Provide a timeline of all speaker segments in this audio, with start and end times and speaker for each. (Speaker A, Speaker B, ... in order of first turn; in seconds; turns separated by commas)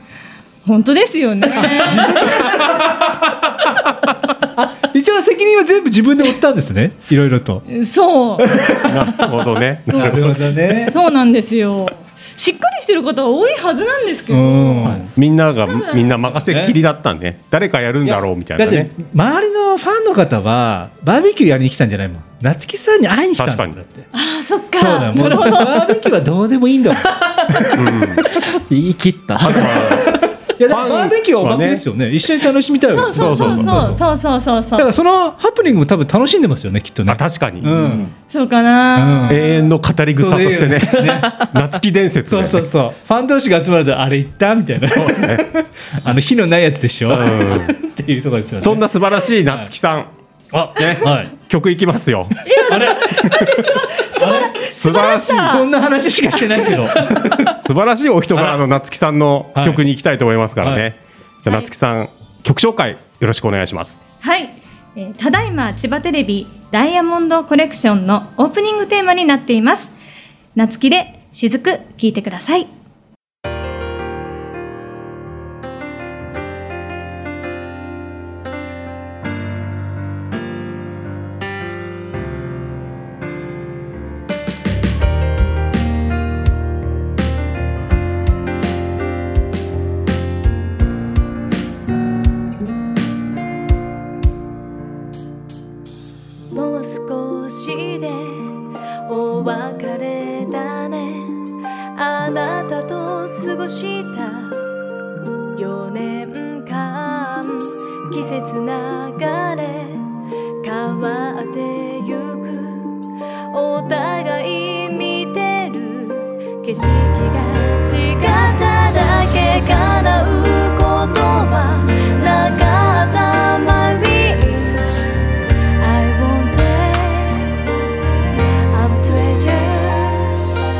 Speaker A: 0.6-2.6, Speaker B: 1.5-7.6, Speaker A: 7.7-8.5, Speaker B: 8.4-9.2, Speaker C: 8.8-10.5, Speaker B: 9.9-10.9, Speaker A: 10.9-15.1, Speaker B: 14.3-15.1, Speaker C: 14.9-18.9, Speaker A: 15.6-16.2, Speaker B: 16.5-16.8, Speaker B: 18.0-24.1, Speaker C: 23.4-23.8, Speaker A: 24.1-26.1, Speaker B: 24.8-27.8, Speaker D: 27.1-27.7, Speaker C: 27.7-28.2, Speaker D: 28.3-29.9, Speaker C: 29.4-31.8, Speaker B: 29.6-34.0, Speaker A: 32.9-34.9, Speaker C: 33.1-33.9, Speaker B: 34.8-38.1, Speaker C: 37.1-37.7, Speaker D: 37.6-38.1, Speaker A: 38.3-39.7, Speaker B: 39.0-39.4, Speaker C: 39.3-42.7, Speaker B: 40.2-41.5, Speaker B: 42.3-48.8, Speaker C: 44.9-45.5, Speaker C: 47.1-47.7, Speaker C: 48.6-50.1, Speaker B: 50.5-51.3, Speaker C: 50.7-53.0, Speaker A: 52.4-55.7, Speaker B: 52.7-57.6, Speaker C: 54.6-55.6, Speaker C: 57.6-64.0, Speaker B: 58.4-58.6, Speaker B: 59.5-59.8, Speaker A: 64.2-69.9, Speaker A: 70.5-72.7, Speaker E: 96.5-104.7, Speaker E: 105.5-125.1, Speaker E: 125.8-127.7, Speaker E: 128.3-130.4